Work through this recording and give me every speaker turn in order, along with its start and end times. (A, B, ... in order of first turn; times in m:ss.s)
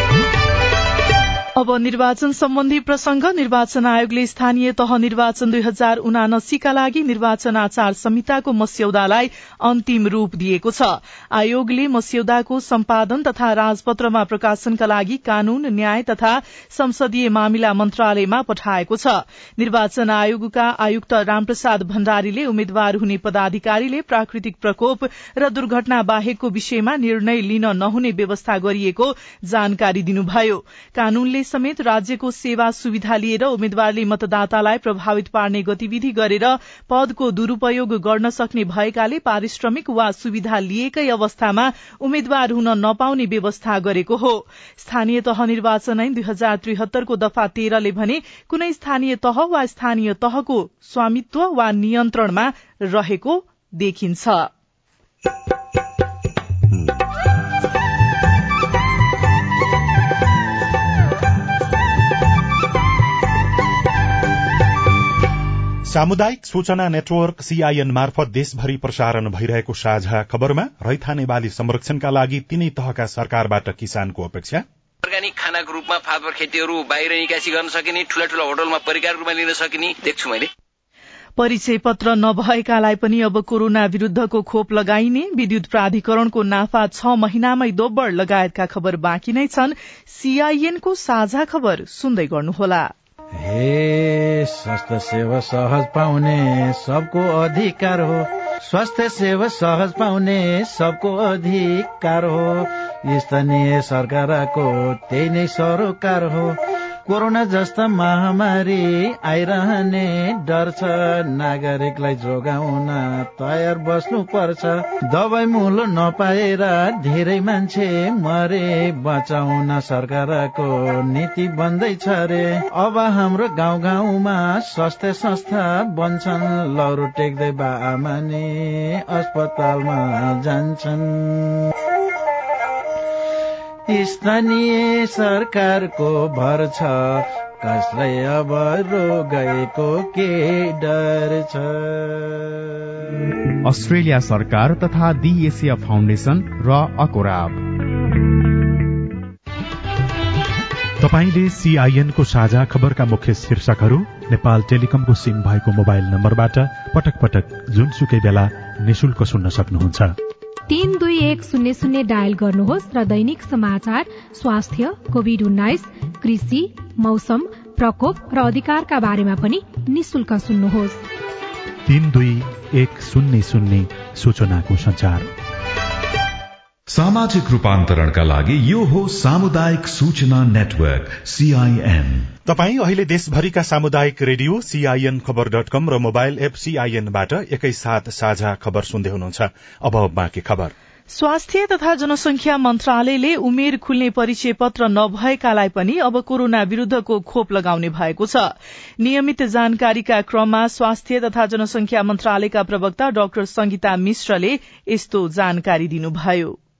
0:01.6-0:54.5 A
1:05.9-1:14.6 B
1:15.0-1:20.5 C
1:21.4-1:32.9 A
1:33.4-2:11.6 D
2:13.9-2:22.7 D
2:23.6-2:27.6 E
2:31.0-2:40.1 B
2:40.7-2:51.0 F
2:51.9-2:55.2 B
2:56.9-3:02.3 G
3:02.5-3:10.7 B
3:11.1-3:26.6 A